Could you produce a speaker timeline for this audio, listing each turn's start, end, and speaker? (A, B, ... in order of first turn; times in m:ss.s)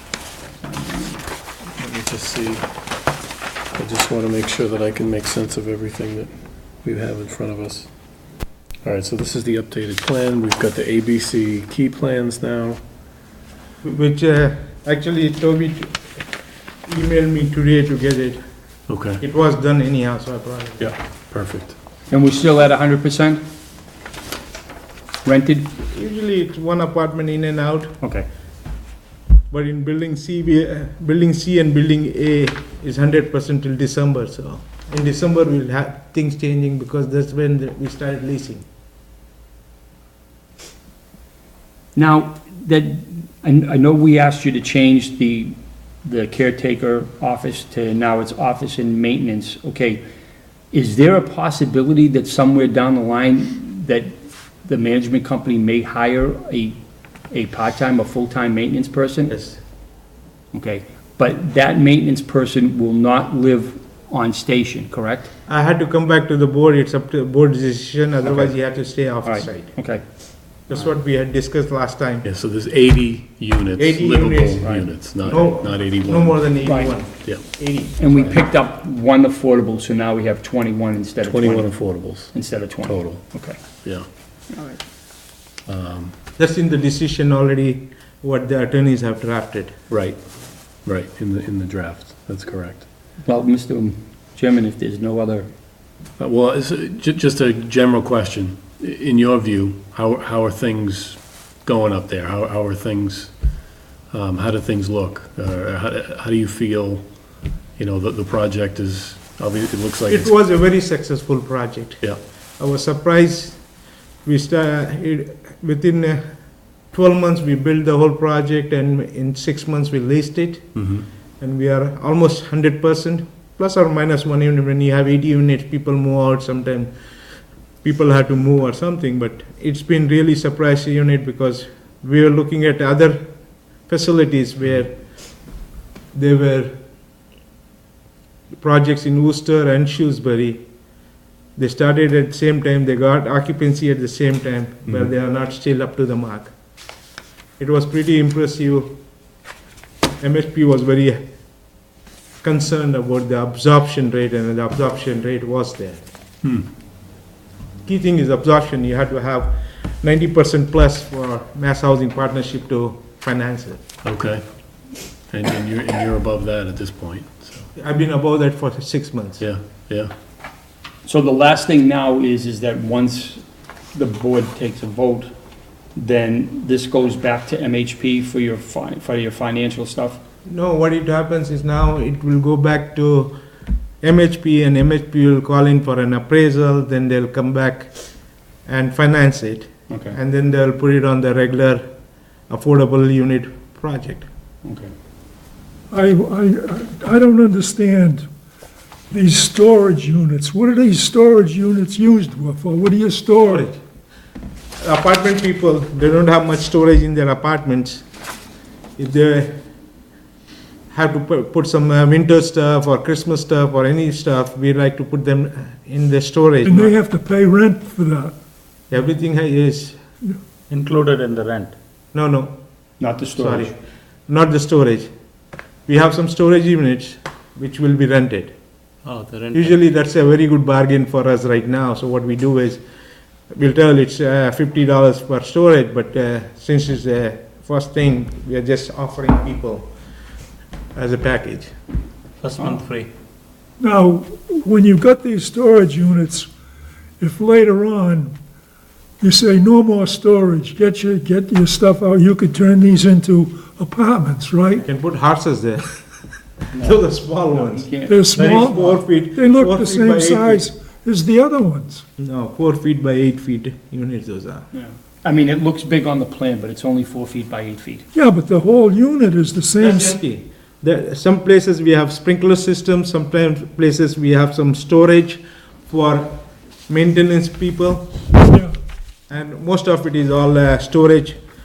0:00.6-0:01.2 A
0:01.8-0:02.7 B
0:03.7-0:06.3 B
0:06.8-0:07.9 B
0:08.8-0:12.8 B
0:13.8-0:16.2 C
0:16.9-0:18.4 C
0:18.9-0:19.2 B
0:19.2-0:20.9 C
0:20.8-0:21.8 B
0:22.1-0:23.4 A
0:25.2-0:25.7 A
0:25.9-0:28.0 C
0:28.0-0:28.3 A
0:29.5-0:38.6 C
0:41.9-0:50.0 A
0:50.7-0:56.8 A
0:57.3-0:59.4 A
0:59.3-0:59.6 C
1:00.5-1:05.3 A
1:05.5-1:09.9 C
1:08.2-1:08.6 A
1:09.2-1:10.0 A
1:10.7-1:12.3 C
1:12.3-1:16.4 B
1:13.8-1:18.5 C
1:16.6-1:17.0 A
1:18.0-1:23.8 A
1:21.3-1:22.3 B
1:24.5-1:24.8 A
1:25.7-1:26.1 B
1:26.4-1:29.7 C
1:29.9-1:30.2 B
1:30.8-1:32.8 B
1:33.2-1:35.5 A
1:36.2-1:43.3 B
1:44.1-1:47.0 B
1:47.8-1:50.3 B
1:50.1-1:53.6 C
1:54.2-2:06.9 C
2:07.8-2:13.3 C
2:13.8-2:15.0 C
2:16.1-2:16.7 C
2:18.6-2:20.7 C
2:21.6-2:26.5 C
2:27.6-2:29.0 C
2:30.2-2:31.2 C
2:32.4-2:36.0 C
2:36.4-2:36.7 B
2:37.8-2:43.8 C
2:44.0-2:44.4 B
2:45.3-2:47.6 B
2:47.8-2:49.4 C
2:49.4-2:50.1 B
2:51.0-2:53.4 A
2:53.9-2:55.3 A
2:55.9-3:00.2 A
3:00.4-3:03.4 C
3:04.0-3:08.0 C
3:08.7-3:11.9 C
3:09.9-3:10.2 A
3:12.5-3:14.3 C
3:14.6-3:14.9 A
3:15.9-3:18.3 D
3:19.1-3:23.7 D
3:23.4-3:23.8 C
3:24.8-3:28.0 C
3:29.0-3:29.6 C
3:30.9-3:36.9 C
3:36.6-3:38.3 D
3:38.9-3:40.0 C
3:40.7-3:41.7 E
3:42.1-3:42.6 C
3:43.0-3:43.7 A
3:43.3-3:45.1 C
3:45.9-3:48.5 C
3:49.0-3:49.8 E
3:49.5-3:52.8 C
3:53.5-3:59.9 C
4:00.9-4:01.7 C
4:02.4-4:03.1 E
4:03.8-4:06.5 D
4:07.2-4:08.3 D
4:09.2-4:14.8 D
4:14.8-4:16.0 C
4:16.8-4:20.6 C
4:17.5-4:18.2 A
4:18.0-4:22.0 D
4:22.2-4:24.6 C
4:24.7-4:28.1 A
4:28.1-4:30.2 D
4:29.8-4:38.2 C
4:38.5-4:38.7 D
4:39.3-4:41.4 C